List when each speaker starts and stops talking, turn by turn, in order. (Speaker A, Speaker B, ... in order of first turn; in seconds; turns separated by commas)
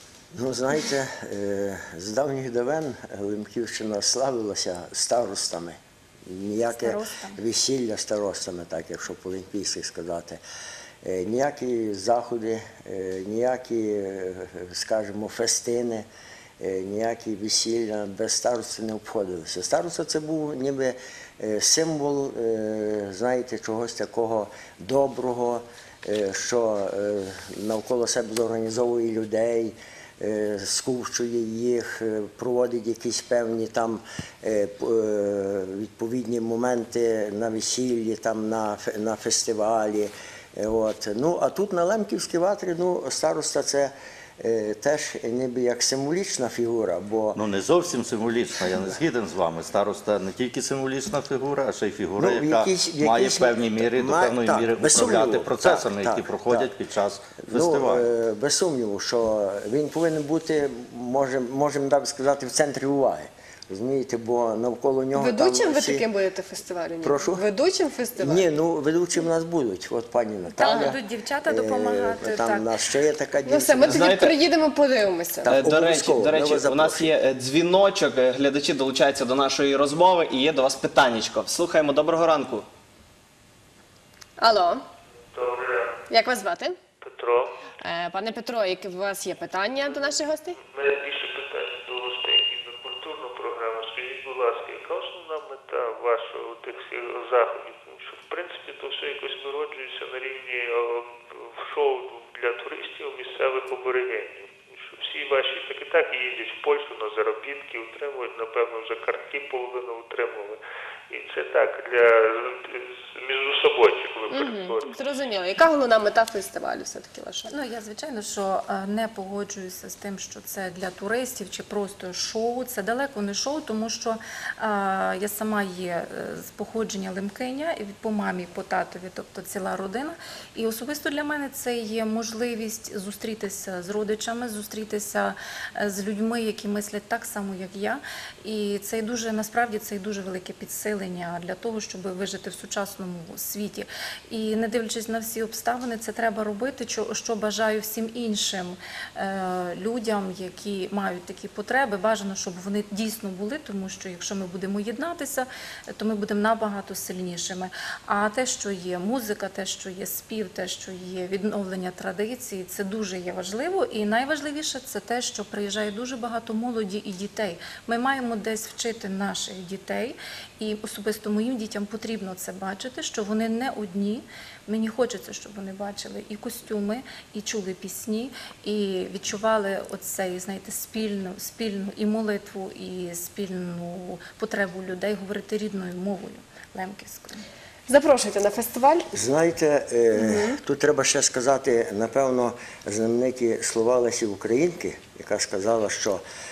Speaker A: 0.3-10.4, Speaker B: 6.6-7.4, Speaker A: 11.0-16.1, Speaker A: 16.6-47.4, Speaker C: 47.3-58.1, Speaker A: 52.2-56.7, Speaker A: 57.4-66.1, Speaker D: 65.1-68.5, Speaker A: 67.0-67.4, Speaker A: 68.2-74.1, Speaker B: 70.5-72.7, Speaker D: 70.6-70.9, Speaker D: 73.5-75.5, Speaker E: 73.8-74.3, Speaker A: 75.4-77.1, Speaker E: 75.5-82.7, Speaker D: 84.4-84.8, Speaker F: 85.3-86.0, Speaker D: 86.1-86.8, Speaker F: 87.0-87.6, Speaker D: 87.8-90.6, Speaker F: 90.6-110.6, Speaker F: 111.1-114.9, Speaker D: 114.3-117.5, Speaker B: 117.5-187.4, Speaker D: 187.9-189.1, Speaker A: 189.1-196.2, Speaker D: 190.1-190.6